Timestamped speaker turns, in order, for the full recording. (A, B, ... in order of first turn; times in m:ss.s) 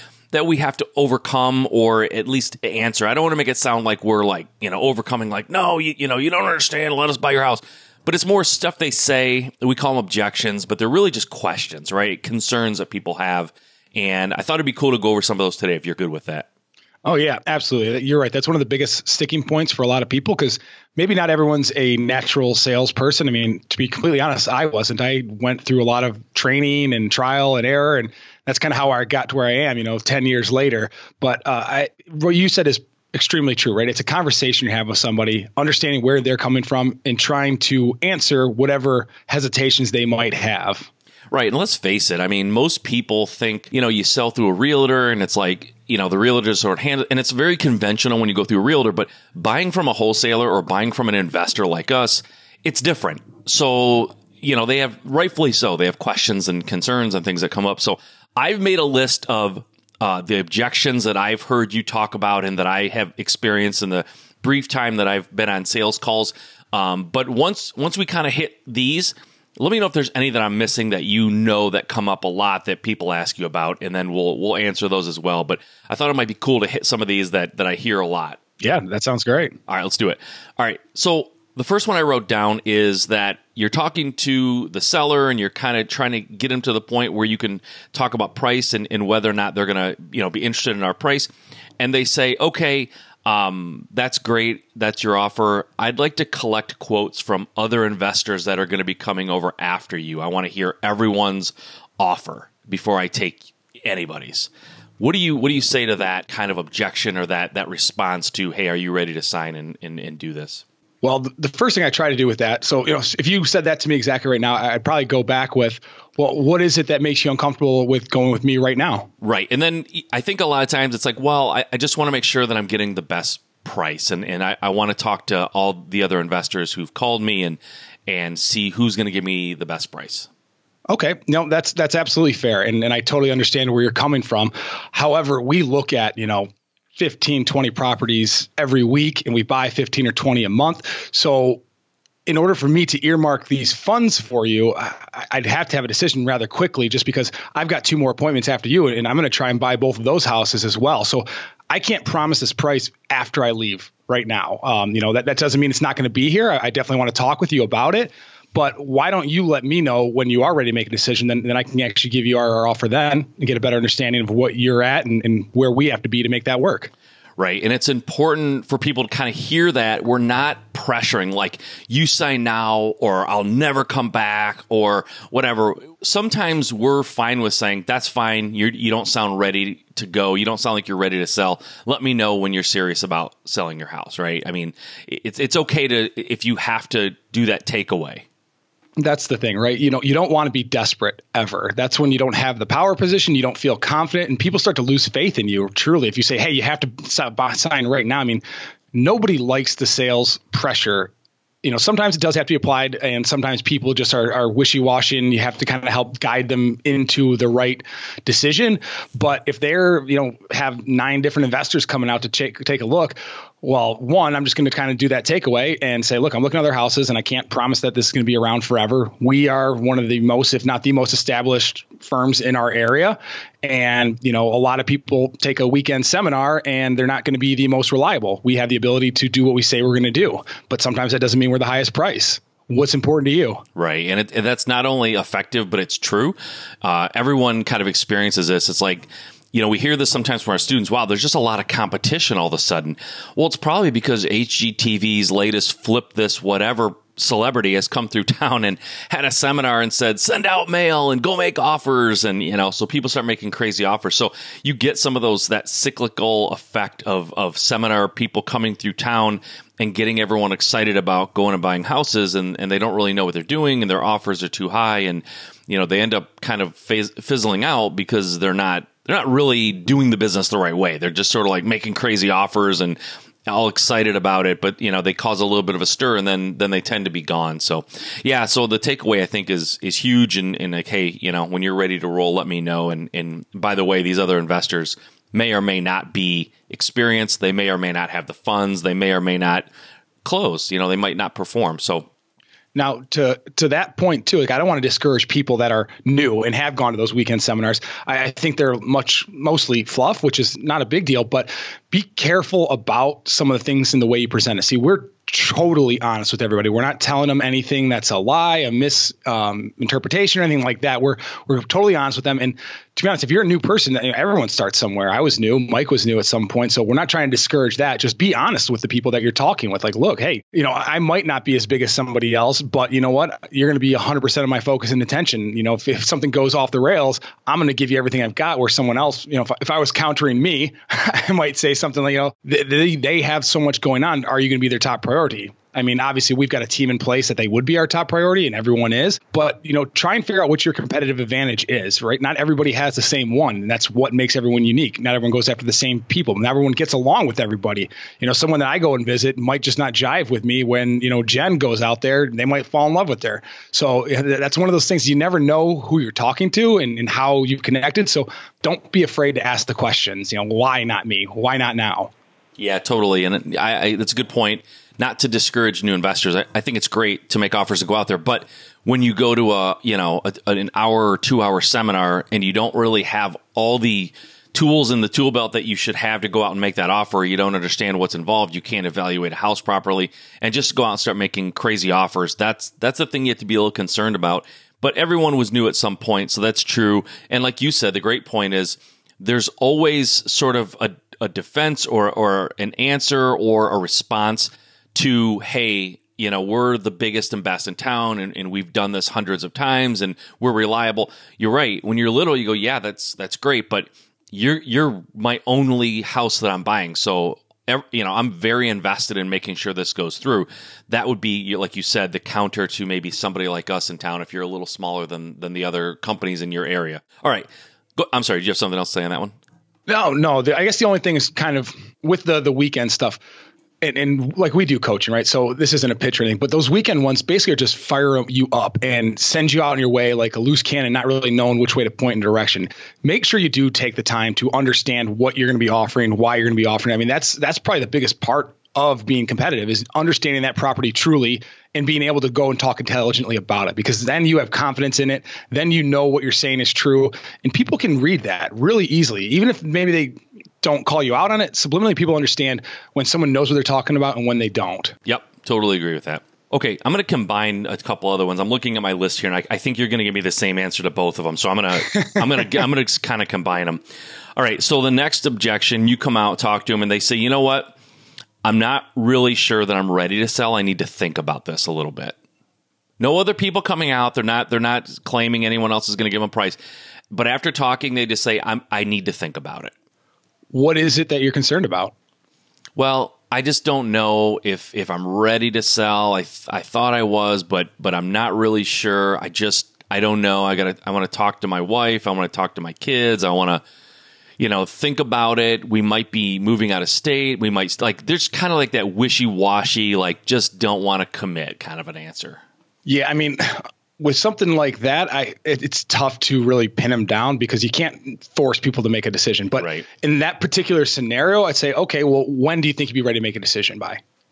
0:00.3-0:16.5 A
0:17.0-0:40.9 B
0:41.3-1:18.4 A
1:18.6-1:19.6 B
1:19.7-1:50.6 A
1:51.0-1:59.1 B
1:59.2-2:10.3 A
2:10.9-2:21.6 B
2:22.2-2:46.9 B
2:47.4-3:08.2 A
3:09.0-3:18.4 B
3:18.9-3:21.1 B
3:21.6-3:53.6 B
3:53.8-4:49.7 A
4:50.2-4:52.1 A
4:52.7-6:02.1 B
6:02.6-6:59.3 A
6:59.9-7:03.2 B
7:03.8-7:34.9 B
7:35.0-7:43.8 A
7:44.4-7:47.8 A
7:48.4-7:52.2 A
7:53.0-7:56.6 A
7:57.1-7:59.7 A
8:00.5-8:01.9 B
8:02.8-8:13.6 A
8:14.4-8:22.4 A
8:22.8-8:34.0 B
8:29.6-8:29.8 A